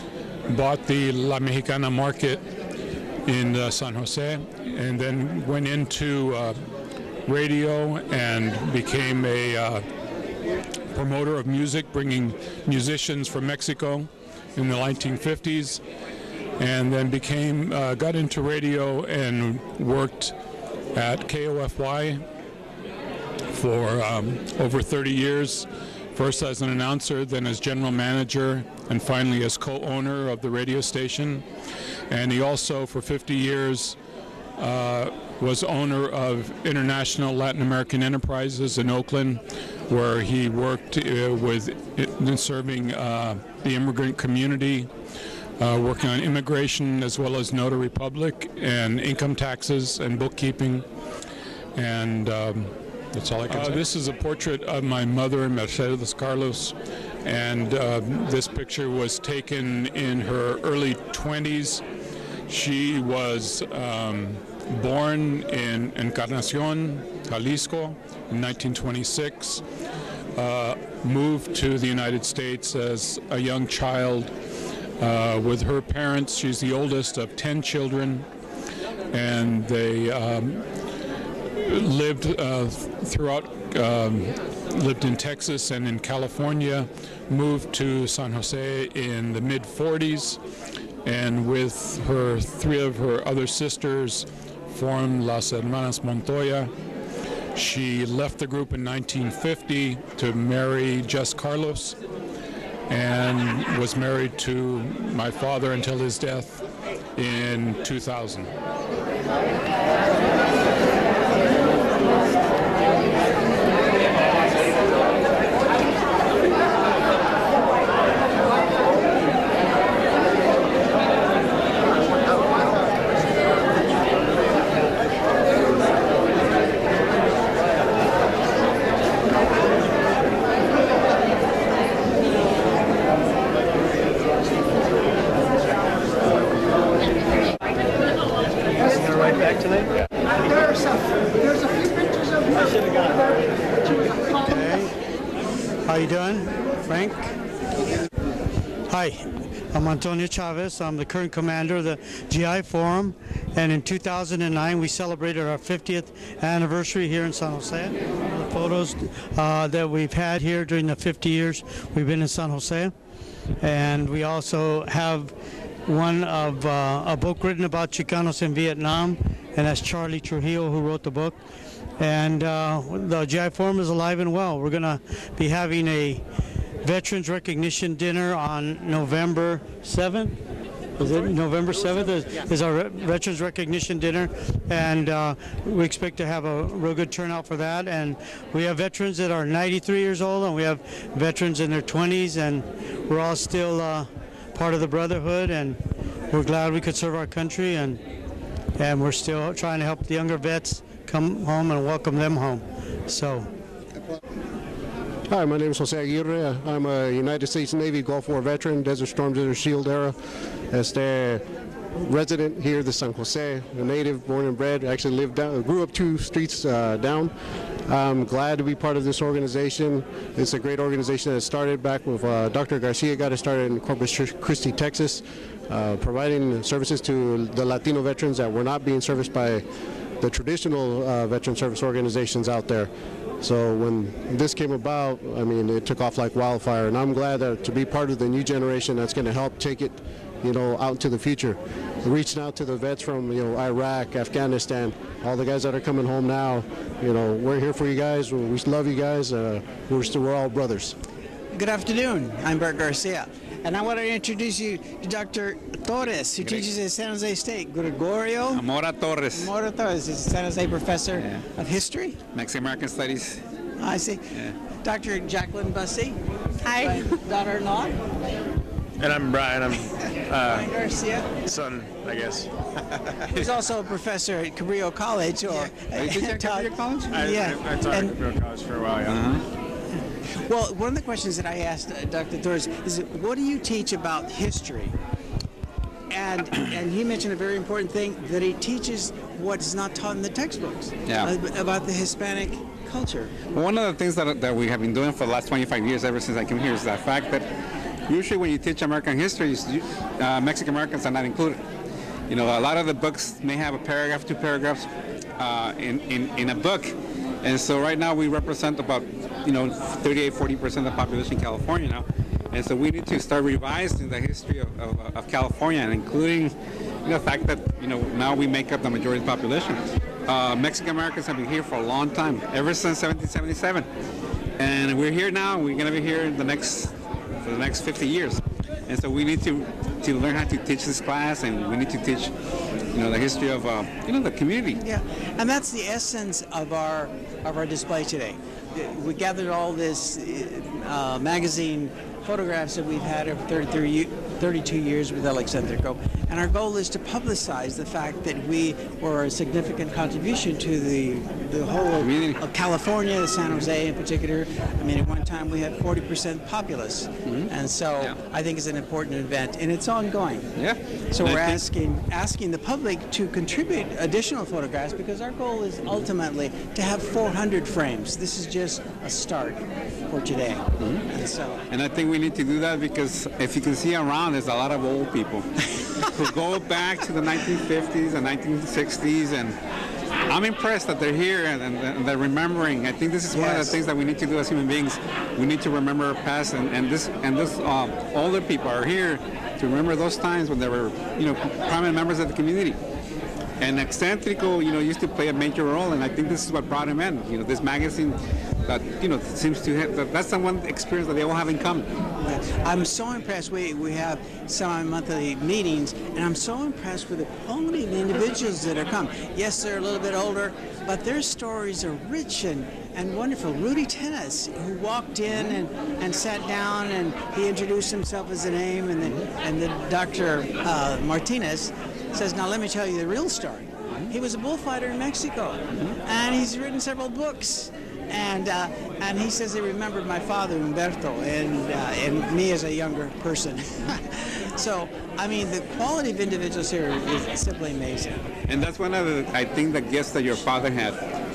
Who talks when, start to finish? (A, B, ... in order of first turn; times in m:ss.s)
0:00.5-0:02.4 A
0:03.3-0:06.6 A
0:07.3-0:09.8 A
0:10.9-0:15.8 A
0:16.6-0:20.4 A
0:20.9-0:22.2 A
0:23.5-0:31.4 A
0:32.1-0:34.0 A
0:34.6-0:44.9 A
0:45.6-0:50.8 A
0:51.8-1:01.8 A
1:02.5-1:09.6 A
1:10.4-1:14.3 A
1:15.0-1:18.3 A
1:19.1-1:20.6 A
1:21.6-1:30.4 A
1:31.0-1:36.7 A
1:37.6-1:42.0 A
1:42.9-1:46.6 A
1:47.2-1:48.5 A
2:18.8-2:19.6 B
2:20.4-2:24.7 B
2:24.5-2:24.9 C
2:25.8-2:27.4 C
2:28.9-2:42.9 C
2:43.6-2:45.4 C
2:45.9-2:51.4 C
2:52.0-2:56.2 C
2:56.8-3:00.4 C
3:01.0-3:18.0 C
3:18.8-3:23.5 C
3:25.3-3:30.2 D
3:30.7-3:31.4 D
3:32.0-3:37.3 D
3:37.9-3:49.6 D
3:50.2-3:52.9 D
3:53.4-4:10.9 D
4:11.5-4:18.6 E
4:16.4-4:16.7 F
4:18.5-4:19.5 F
4:19.3-4:22.2 E
4:21.1-4:21.4 F
4:22.3-4:23.4 F
4:23.8-4:28.0 E
4:29.0-4:30.6 G
4:30.5-4:31.6 E
4:31.5-4:32.5 G
4:33.3-4:38.2 E
4:35.9-4:37.2 F
4:37.2-4:39.2 G
4:39.1-4:39.4 F
4:40.4-4:45.0 E
4:46.1-4:53.4 E
4:51.1-4:51.3 F
4:53.5-4:57.5 F
4:58.1-5:01.6 F
5:02.3-5:04.9 F
5:05.4-5:16.5 F
5:17.0-5:23.9 F
5:24.6-5:32.3 F
5:32.9-5:34.8 F
5:34.8-6:11.6 E
5:52.0-5:52.4 F
5:57.2-5:58.2 F
6:00.6-6:01.7 F
6:10.8-6:11.1 F
6:11.7-6:15.5 F
6:16.1-6:19.6 F
6:20.3-6:32.8 F
6:23.3-6:23.8 E
6:33.6-6:41.9 F
6:42.2-7:18.3 E
6:55.3-6:55.6 F
6:59.0-6:59.3 F
7:18.5-7:21.0 F